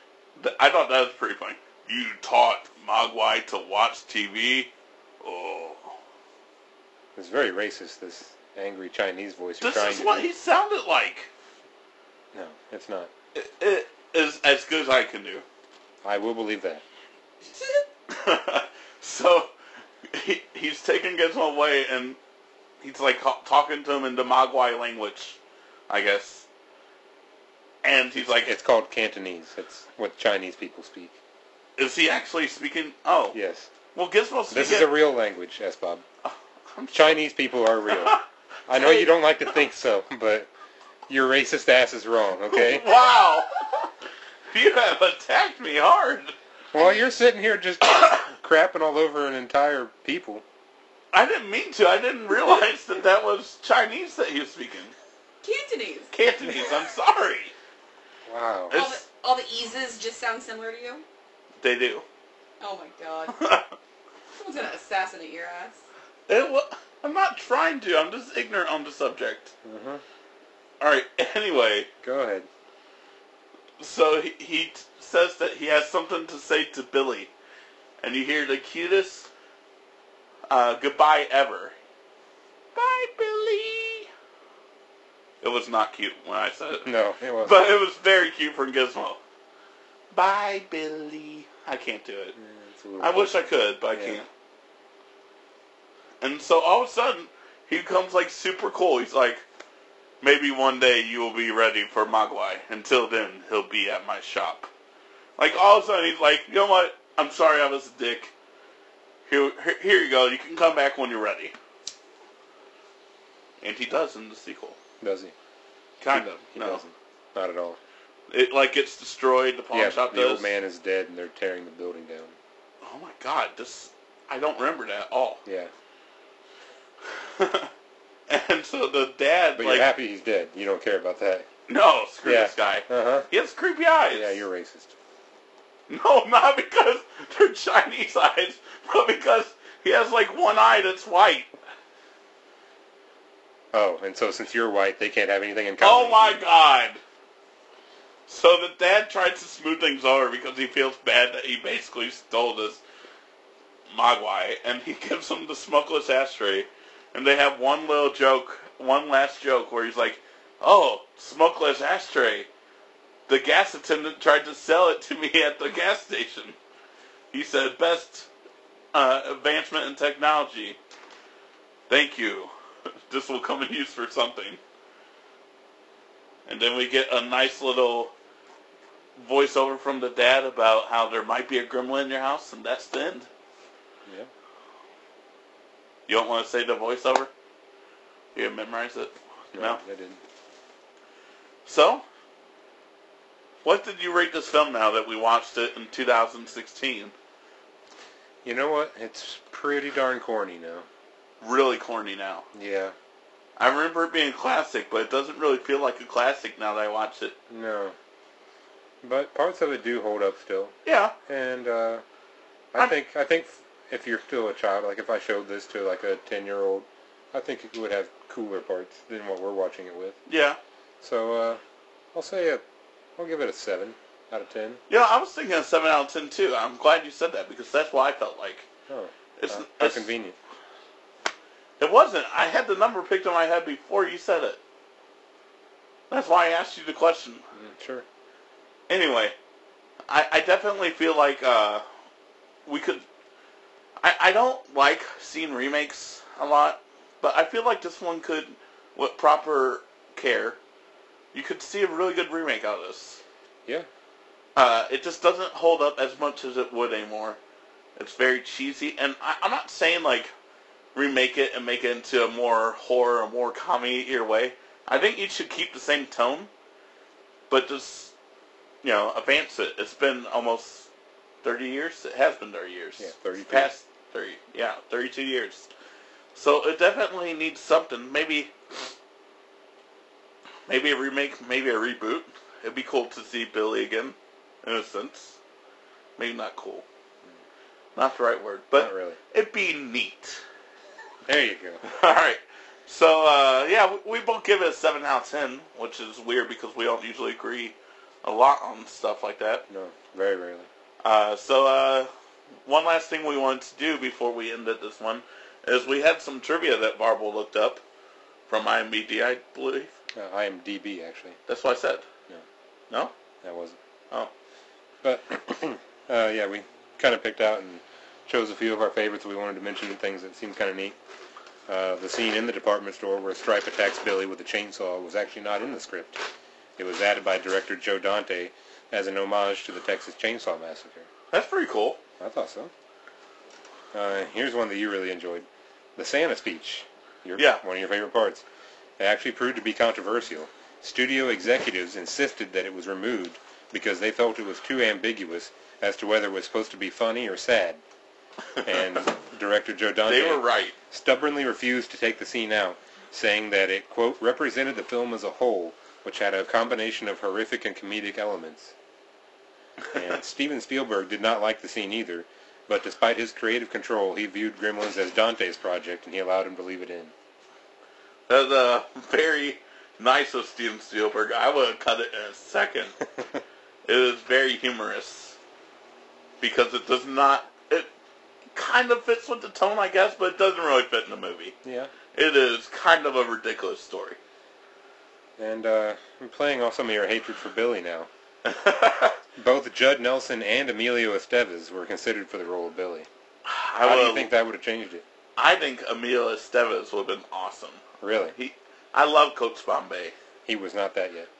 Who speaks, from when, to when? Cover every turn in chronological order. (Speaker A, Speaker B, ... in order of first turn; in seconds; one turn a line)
Speaker A: 0.4-4.7
Speaker A: 5.2-6.0
Speaker B: 7.1-10.3
Speaker A: 9.6-11.3
Speaker B: 12.3-13.1
Speaker A: 13.3-15.4
Speaker B: 16.0-16.8
Speaker A: 17.5-19.5
Speaker A: 20.1-22.2
Speaker A: 22.8-25.4
Speaker A: 25.9-26.4
Speaker A: 27.8-28.5
Speaker B: 28.2-31.1
Speaker A: 31.8-33.4
Speaker B: 33.3-33.7
Speaker A: 33.9-35.0
Speaker B: 34.5-36.0
Speaker A: 36.2-37.2
Speaker B: 36.9-40.5
Speaker A: 37.9-38.2
Speaker A: 38.8-39.1
Speaker B: 41.1-42.9
Speaker A: 42.5-43.9
Speaker A: 44.5-46.3
Speaker B: 46.7-50.4
Speaker A: 51.1-54.9
Speaker C: 55.4-56.1
Speaker A: 56.1-57.5
Speaker B: 58.2-58.8
Speaker A: 58.7-59.0
Speaker C: 58.7-61.0
Speaker A: 61.6-62.0
Speaker C: 62.6-63.5
Speaker A: 63.3-63.7
Speaker C: 64.3-65.8
Speaker A: 66.3-69.5
Speaker B: 69.6-70.0
Speaker A: 70.8-71.9
Speaker B: 72.0-72.5
Speaker A: 73.8-77.3
Speaker A: 78.0-79.3
Speaker A: 80.5-81.7
Speaker A: 82.7-84.1
Speaker A: 85.4-89.2
Speaker B: 86.8-87.6
Speaker A: 90.1-92.4
Speaker B: 92.4-94.2
Speaker A: 93.0-94.3
Speaker A: 96.2-99.4
Speaker A: 100.2-104.7
Speaker A: 105.4-108.3
Speaker A: 109.3-111.5
Speaker A: 113.6-114.8
Speaker B: 115.0-115.3
Speaker A: 116.0-116.8
Speaker B: 116.1-117.8
Speaker A: 118.3-120.5
Speaker B: 119.7-122.3
Speaker A: 122.8-125.4
Speaker B: 125.4-125.7
Speaker A: 127.2-127.7
Speaker A: 128.3-129.9
Speaker B: 129.6-131.5
Speaker A: 131.7-134.4
Speaker B: 132.2-133.3
Speaker B: 134.1-134.9
Speaker A: 135.9-141.5
Speaker B: 143.7-146.4
Speaker A: 145.8-147.0
Speaker A: 148.3-152.8
Speaker A: 153.9-162.5
Speaker A: 163.3-166.6
Speaker A: 167.3-168.3
Speaker A: 168.9-170.8
Speaker A: 171.9-172.5
Speaker A: 173.1-174.6
Speaker A: 176.5-178.1
Speaker A: 179.2-183.3
Speaker A: 186.1-187.3
Speaker A: 188.3-189.8
Speaker B: 189.5-190.2
Speaker A: 191.7-192.0
Speaker A: 193.6-197.1
Speaker B: 198.4-200.8
Speaker A: 201.4-202.4
Speaker B: 202.5-202.9
Speaker A: 203.6-207.3
Speaker B: 207.5-207.9
Speaker B: 209.0-210.7
Speaker A: 210.8-211.1
Speaker B: 211.3-212.0
Speaker B: 212.7-220.2
Speaker A: 220.3-220.6
Speaker B: 221.0-221.6
Speaker B: 222.1-222.6
Speaker B: 223.2-224.8
Speaker A: 224.9-228.7
Speaker B: 228.9-230.3
Speaker A: 229.4-230.1
Speaker A: 231.8-234.6
Speaker A: 236.1-237.4
Speaker B: 237.5-238.0
Speaker A: 238.9-239.3
Speaker A: 240.1-241.8
Speaker A: 242.7-243.0
Speaker A: 244.0-250.6
Speaker A: 251.3-253.2
Speaker A: 254.6-257.4
Speaker A: 258.0-260.3
Speaker A: 260.9-266.5
Speaker A: 267.5-268.1
Speaker A: 268.8-270.9
Speaker A: 271.4-275.7
Speaker B: 273.0-273.7
Speaker A: 276.3-278.5
Speaker A: 280.7-285.4
Speaker A: 286.2-286.8
Speaker A: 287.9-290.4
Speaker B: 288.7-289.2
Speaker B: 291.2-291.8
Speaker A: 291.8-299.6
Speaker B: 299.7-300.7
Speaker A: 301.0-302.1
Speaker A: 302.6-307.8
Speaker A: 308.5-309.9
Speaker B: 310.1-311.4
Speaker A: 311.5-312.0
Speaker B: 313.4-313.8
Speaker B: 315.0-320.9
Speaker B: 321.7-326.2
Speaker B: 326.8-331.1
Speaker A: 331.3-332.0
Speaker B: 332.2-332.7
Speaker B: 333.9-338.4
Speaker A: 337.4-337.6
Speaker B: 339.0-347.8
Speaker B: 348.6-358.7
Speaker A: 350.1-350.8
Speaker B: 359.9-367.1
Speaker A: 368.3-372.9
Speaker A: 373.9-375.4
Speaker A: 376.4-377.9
Speaker A: 378.5-381.5
Speaker B: 381.6-381.9
Speaker A: 382.1-384.2
Speaker B: 385.4-388.1
Speaker A: 388.4-389.2
Speaker B: 389.4-393.1
Speaker A: 393.4-394.3
Speaker B: 393.8-395.0
Speaker A: 395.4-397.8
Speaker B: 398.0-398.4
Speaker A: 398.3-400.1
Speaker B: 400.5-401.3